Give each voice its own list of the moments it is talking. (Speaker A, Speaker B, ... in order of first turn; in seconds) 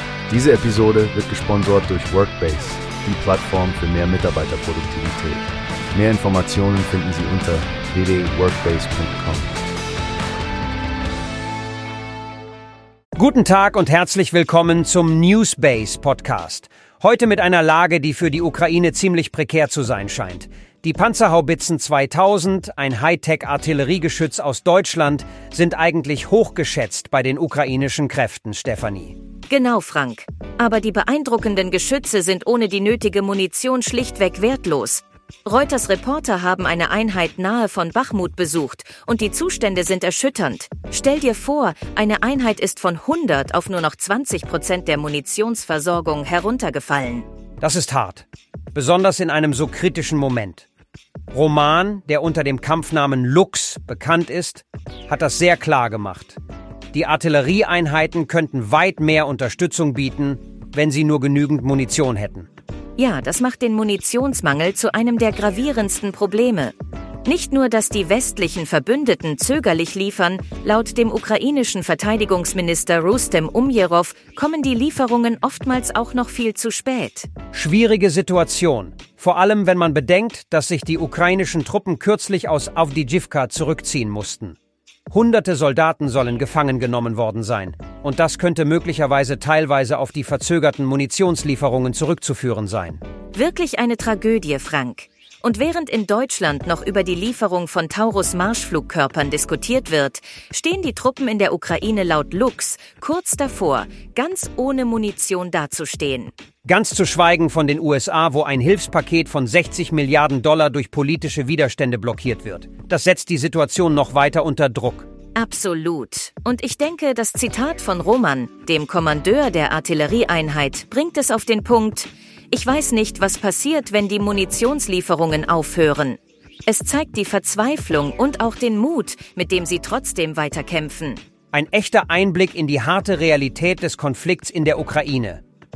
Speaker A: 0.3-9.7
Speaker B: 13.2-29.1, 47.6-50.7, 51.3-56.4, 56.9-62.5, 77.5-84.5, 85.1-93.0, 106.6-115.1, 131.5-135.4
Speaker C: 29.5-47.2, 63.0-66.7, 67.2-77.3, 93.3-106.3, 115.3-131.2